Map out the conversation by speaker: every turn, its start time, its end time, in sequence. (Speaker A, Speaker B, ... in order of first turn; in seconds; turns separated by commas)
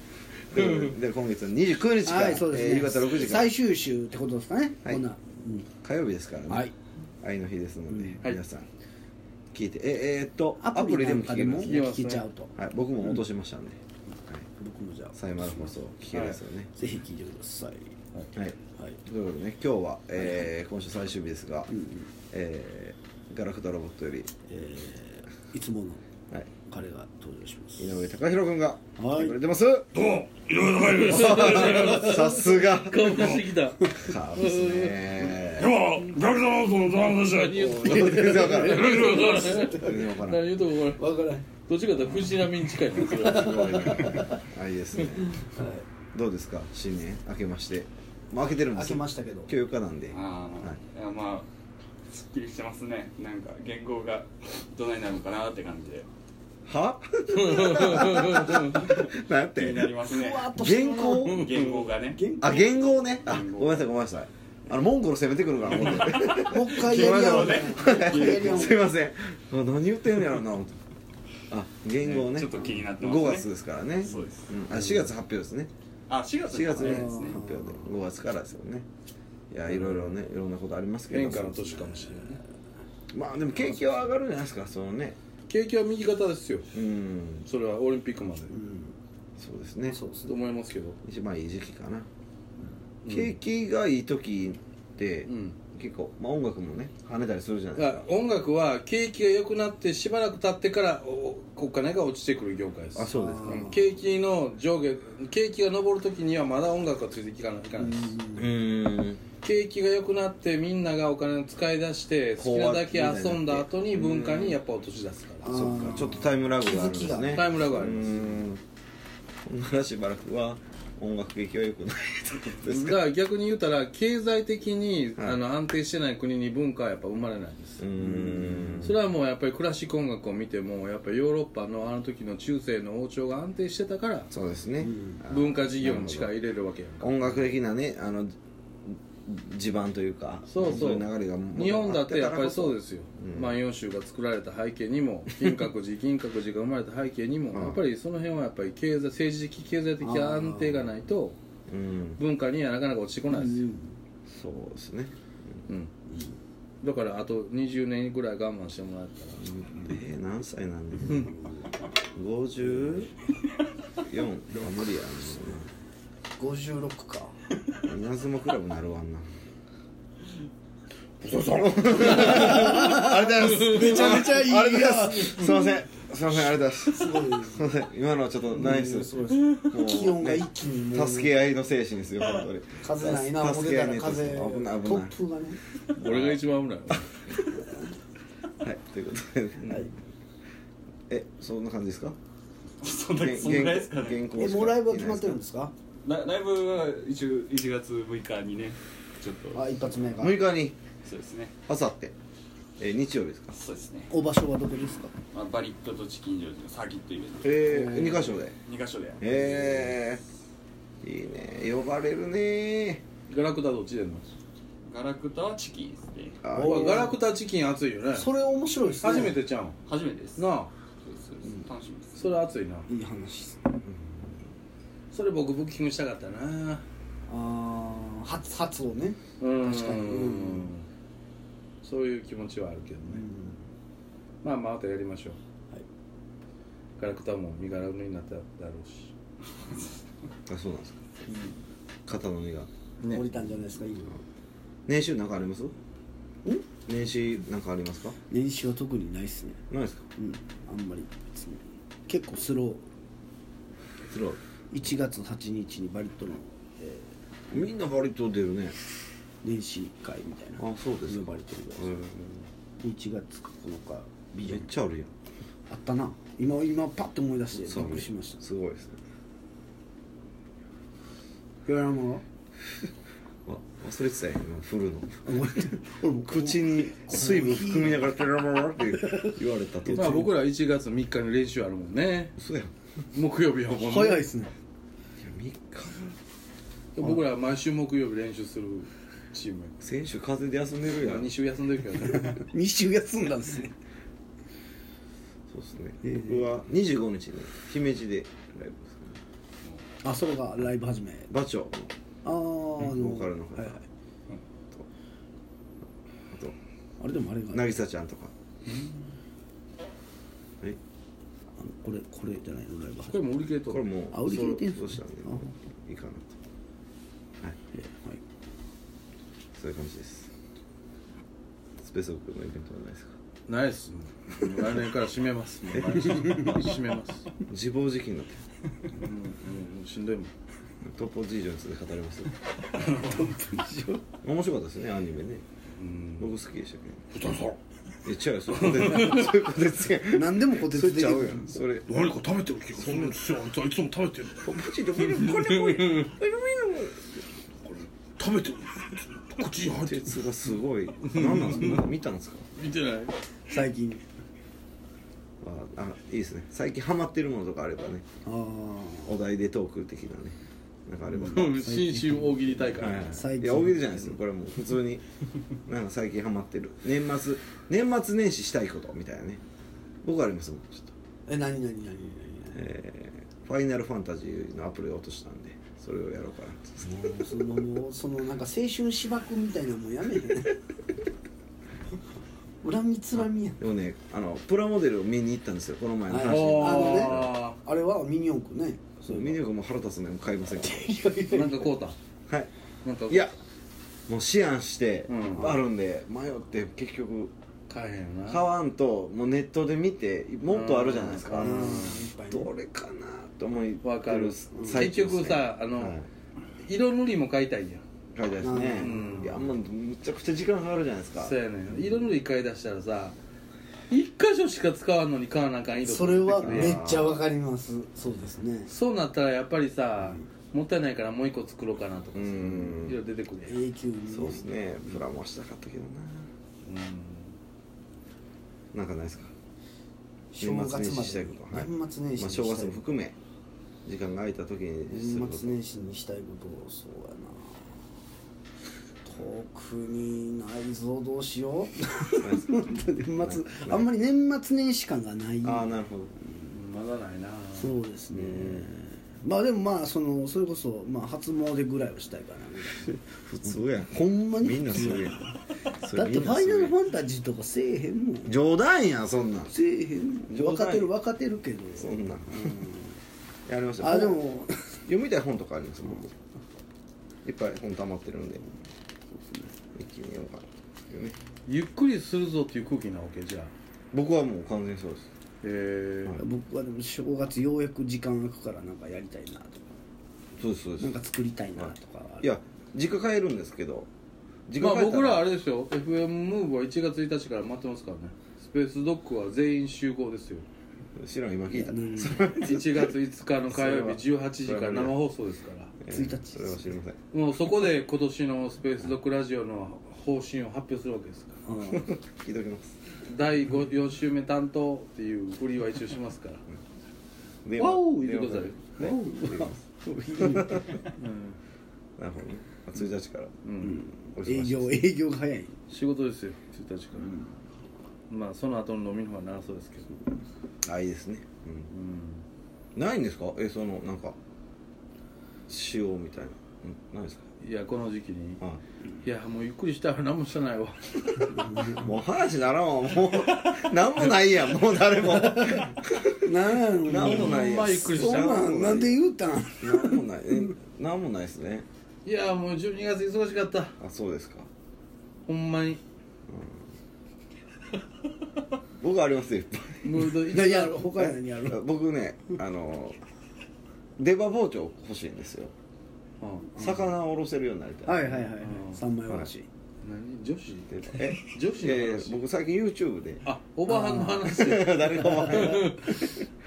Speaker A: 0.5-3.5, Speaker B: 2.0-5.7, Speaker A: 5.8-8.7, Speaker B: 7.9-8.2, Speaker A: 9.5-11.8, Speaker B: 10.6-12.5, Speaker C: 11.6-12.2, Speaker A: 12.6-14.5, Speaker B: 14.6-15.7, Speaker A: 15.2-16.7, Speaker C: 16.1-16.4, Speaker B: 16.8-18.0, Speaker A: 18.4-21.7, Speaker B: 20.2-20.5, Speaker B: 21.7-22.1, Speaker A: 22.3-24.3, Speaker B: 24.5-26.0, Speaker B: 26.7-28.0, Speaker A: 27.8-29.9, Speaker B: 29.0-29.4, Speaker D: 29.9-32.2, Speaker A: 31.0-33.4, Speaker C: 31.1-35.0, Speaker D: 33.1-33.5, Speaker A: 33.9-35.7, Speaker D: 35.6-39.6, Speaker C: 37.3-41.1, Speaker A: 37.5-39.2, Speaker B: 38.2-40.1, Speaker A: 39.8-40.5, Speaker B: 40.9-41.5, Speaker C: 41.6-43.8, Speaker A: 41.9-42.4, Speaker B: 43.0-44.4, Speaker A: 43.1-45.4, Speaker B: 45.4-45.9, Speaker A: 46.1-50.8, Speaker B: 48.7-49.5, Speaker E: 50.1-51.5, Speaker E: 52.1-56.1, Speaker A: 56.7-60.0, Speaker C: 57.3-58.9, Speaker E: 58.9-62.2, Speaker B: 60.0-61.4, Speaker A: 60.5-61.5, Speaker C: 61.3-61.9, Speaker B: 62.1-62.7, Speaker A: 62.4-70.8, Speaker E: 63.2-63.9, Speaker E: 65.8-68.8, Speaker B: 66.4-68.8, Speaker A: 71.5-75.7, Speaker E: 72.0-74.5, Speaker C: 74.7-75.1, Speaker E: 76.1-77.6, Speaker A: 76.5-78.9, Speaker B: 76.7-77.8, Speaker A: 79.5-81.6, Speaker C: 79.7-80.1, Speaker C: 81.1-82.4, Speaker B: 81.5-82.4, Speaker A: 83.1-85.2, Speaker C: 85.5-86.7, Speaker A: 86.7-87.5, Speaker C: 87.5-88.6, Speaker B: 88.5-89.0, Speaker A: 89.4-90.0, Speaker B: 89.9-90.3, Speaker C: 90.3-91.0, Speaker A: 91.0-92.1, Speaker C: 93.0-93.3, Speaker A: 93.1-98.1, Speaker C: 95.3-95.6, Speaker C: 97.8-108.2, Speaker A: 103.0-103.8, Speaker B: 103.1-103.8, Speaker B: 107.8-108.5, Speaker A: 108.4-109.2, Speaker C: 109.4-115.5, Speaker A: 112.4-114.6, Speaker B: 115.4-117.6, Speaker A: 115.5-118.6, Speaker C: 117.3-118.4, Speaker A: 119.5-123.0, Speaker C: 122.7-127.9, Speaker A: 127.8-129.0, Speaker B: 128.0-128.9, Speaker C: 128.8-134.3, Speaker A: 134.3-136.3, Speaker B: 134.8-135.2, Speaker C: 135.3-137.5, Speaker A: 137.0-138.3, Speaker A: 138.9-143.6, Speaker C: 140.5-151.4, Speaker A: 147.5-147.8, Speaker B: 150.0-150.9, Speaker A: 151.7-152.2, Speaker C: 152.2-153.7, Speaker B: 153.3-154.0, Speaker A: 154.3-155.6, Speaker C: 155.7-155.9, Speaker B: 156.1-156.4, Speaker C: 156.8-159.5, Speaker A: 159.4-161.3, Speaker B: 161.1-161.7, Speaker A: 162.2-163.1, Speaker A: 164.0-165.7, Speaker B: 164.5-165.3, Speaker B: 166.4-167.3, Speaker A: 167.8-169.3, Speaker D: 171.2-172.7, Speaker A: 171.5-185.1, Speaker B: 172.2-175.7, Speaker B: 176.4-177.7, Speaker B: 178.5-181.3, Speaker B: 182.8-185.6, Speaker A: 185.9-187.0, Speaker C: 186.0-187.1, Speaker A: 188.6-189.9, Speaker A: 191.1-192.2, Speaker E: 192.8-194.2, Speaker A: 193.2-195.4, Speaker B: 194.4-195.7, Speaker E: 196.0-199.9, Speaker B: 199.5-200.4, Speaker A: 200.2-200.8, Speaker E: 201.0-201.5, Speaker A: 201.7-202.1, Speaker A: 202.8-203.5, Speaker E: 203.5-204.1, Speaker B: 204.1-205.1, Speaker E: 205.3-207.6, Speaker A: 207.4-208.6, Speaker B: 207.6-208.3, Speaker E: 208.7-209.7, Speaker A: 209.2-210.2, Speaker A: 211.0-213.0, Speaker C: 213.3-214.3, Speaker E: 214.9-216.4, Speaker A: 216.4-217.1, Speaker B: 216.5-217.2, Speaker C: 216.6-218.3, Speaker B: 218.1-219.4, Speaker C: 219.0-219.8, Speaker E: 219.9-220.5, Speaker C: 220.4-220.7, Speaker E: 221.0-222.3, Speaker C: 222.2-222.9, Speaker B: 222.9-223.6, Speaker A: 223.8-224.4, Speaker C: 225.1-226.8, Speaker B: 227.3-230.7, Speaker C: 229.4-230.9, Speaker C: 231.8-233.3, Speaker B: 233.1-233.6, Speaker C: 234.4-235.4, Speaker C: 237.0-239.1, Speaker A: 240.5-241.0, Speaker B: 241.3-241.5, Speaker A: 242.1-242.7, Speaker C: 243.0-243.3, Speaker B: 243.1-244.2, Speaker A: 244.9-245.8, Speaker A: 246.9-248.2, Speaker B: 248.3-249.6, Speaker A: 249.7-250.1, Speaker B: 250.2-252.8, Speaker A: 254.0-254.4, Speaker B: 254.7-257.1, Speaker A: 257.5-258.8, Speaker B: 259.4-261.9, Speaker A: 260.6-262.5, Speaker B: 262.8-264.7, Speaker A: 264.4-265.1, Speaker B: 265.7-268.4, Speaker A: 267.6-269.0, Speaker B: 271.6-272.2, Speaker A: 273.5-275.4, Speaker B: 275.3-278.0, Speaker A: 276.2-280.3, Speaker C: 279.9-282.4, Speaker B: 279.9-280.3, Speaker A: 282.4-282.7, Speaker C: 283.1-284.3, Speaker B: 283.7-284.5, Speaker A: 285.2-286.2, Speaker C: 287.0-289.8, Speaker A: 289.8-291.3, Speaker C: 291.0-292.4, Speaker B: 292.1-293.7, Speaker A: 295.5-299.2, Speaker B: 296.0-296.4, Speaker B: 300.0-301.3, Speaker A: 301.3-301.9, Speaker B: 302.2-303.8, Speaker A: 302.8-303.8, Speaker A: 306.3-306.6, Speaker B: 307.0-307.7, Speaker A: 307.5-308.3, Speaker B: 311.6-313.2, Speaker C: 313.1-313.9, Speaker A: 313.7-316.3, Speaker B: 314.1-315.5, Speaker B: 317.7-318.2, Speaker A: 319.6-320.3, Speaker A: 321.8-323.1, Speaker C: 323.5-327.3, Speaker A: 327.5-328.4, Speaker C: 328.9-330.3, Speaker A: 330.8-332.3, Speaker C: 332.8-333.6, Speaker B: 333.0-334.0, Speaker A: 334.1-335.4, Speaker C: 335.8-336.3, Speaker A: 336.2-337.1, Speaker D: 337.1-337.6, Speaker A: 338.1-341.9, Speaker C: 338.8-339.2, Speaker B: 340.1-341.6, Speaker D: 341.9-344.5, Speaker A: 342.8-343.2, Speaker A: 344.4-347.1, Speaker C: 345.8-346.1, Speaker D: 348.0-350.1, Speaker A: 349.6-352.5, Speaker C: 351.0-351.8, Speaker C: 352.6-353.1, Speaker B: 353.5-354.0, Speaker A: 355.4-358.1, Speaker B: 358.2-359.1, Speaker A: 359.1-361.6, Speaker B: 361.1-364.2, Speaker C: 361.1-363.2, Speaker A: 362.8-365.0, Speaker A: 365.7-369.4, Speaker A: 370.0-370.9, Speaker B: 371.3-372.7, Speaker A: 372.5-377.5, Speaker B: 376.9-380.6, Speaker B: 382.6-383.6, Speaker A: 383.6-387.3, Speaker B: 386.1-389.4, Speaker C: 386.2-387.6, Speaker A: 389.1-390.9, Speaker B: 390.6-391.7, Speaker C: 391.3-392.0, Speaker C: 392.8-393.4, Speaker A: 394.1-397.3, Speaker C: 395.1-395.5, Speaker C: 397.7-398.4, Speaker A: 398.3-406.1, Speaker C: 400.5-402.1, Speaker B: 401.3-402.5, Speaker C: 403.8-406.0, Speaker B: 404.5-404.8, Speaker C: 406.6-407.8, Speaker A: 408.1-412.1, Speaker B: 408.4-409.4, Speaker C: 408.8-409.4, Speaker C: 411.2-413.2, Speaker C: 413.9-416.8, Speaker B: 415.8-418.7, Speaker A: 416.3-417.2, Speaker C: 418.7-423.6, Speaker B: 420.0-420.3, Speaker A: 422.1-423.0, Speaker B: 423.5-424.5, Speaker A: 424.1-426.3, Speaker C: 426.6-427.4, Speaker A: 428.7-429.3, Speaker B: 430.3-432.8, Speaker A: 430.4-433.2, Speaker A: 433.9-435.6, Speaker B: 434.9-437.8, Speaker B: 439.1-445.7, Speaker A: 442.2-443.9, Speaker A: 445.4-446.1, Speaker B: 446.2-446.5, Speaker C: 446.5-447.8, Speaker B: 447.6-453.0, Speaker A: 448.1-448.7, Speaker A: 453.3-455.3, Speaker B: 453.9-455.2, Speaker A: 455.8-456.8, Speaker B: 455.9-458.4, Speaker A: 458.2-459.5, Speaker B: 459.5-463.0, Speaker A: 460.3-460.9, Speaker A: 461.8-462.6, Speaker A: 463.5-464.2, Speaker B: 463.8-464.5, Speaker A: 464.9-466.1, Speaker A: 467.2-468.5, Speaker B: 469.1-469.5, Speaker A: 469.8-471.2, Speaker C: 471.5-473.5, Speaker A: 473.9-475.1, Speaker C: 475.4-476.2, Speaker B: 476.2-479.7, Speaker A: 480.4-481.0, Speaker B: 480.8-482.3, Speaker A: 481.6-483.9, Speaker A: 484.5-485.3, Speaker C: 484.6-490.5, Speaker A: 491.0-492.9, Speaker B: 491.5-492.3, Speaker C: 492.3-495.8, Speaker A: 493.5-495.0, Speaker A: 495.8-497.0, Speaker B: 495.9-496.7, Speaker C: 497.1-501.4, Speaker B: 501.4-501.9, Speaker A: 501.7-502.7, Speaker C: 503.1-506.4, Speaker A: 507.4-509.6, Speaker C: 507.6-508.9, Speaker B: 508.8-510.9, Speaker A: 510.2-510.7, Speaker C: 511.0-511.4, Speaker A: 512.0-513.3, Speaker C: 513.4-513.9, Speaker B: 513.6-515.5, Speaker A: 514.1-514.9, Speaker C: 515.7-517.2, Speaker B: 517.0-517.3, Speaker C: 518.1-520.0, Speaker A: 520.6-521.7, Speaker C: 521.7-522.2, Speaker A: 522.8-524.2, Speaker A: 525.5-527.2, Speaker C: 527.4-528.4, Speaker C: 529.0-531.5, Speaker B: 531.3-531.9, Speaker A: 531.8-539.0, Speaker B: 536.2-540.0, Speaker C: 536.9-538.4, Speaker A: 539.6-541.7, Speaker C: 542.0-543.8, Speaker A: 543.8-544.5, Speaker C: 545.3-545.8, Speaker A: 546.3-546.6, Speaker A: 548.8-550.2, Speaker C: 549.8-550.9, Speaker B: 550.2-551.6, Speaker A: 550.9-553.0, Speaker A: 554.0-555.5, Speaker C: 556.2-556.8, Speaker A: 556.6-558.3, Speaker B: 557.9-559.5, Speaker C: 558.3-558.8, Speaker C: 559.8-562.2, Speaker A: 560.7-563.2, Speaker C: 563.2-566.0, Speaker B: 563.7-564.3, Speaker A: 564.2-566.2, Speaker B: 565.0-565.6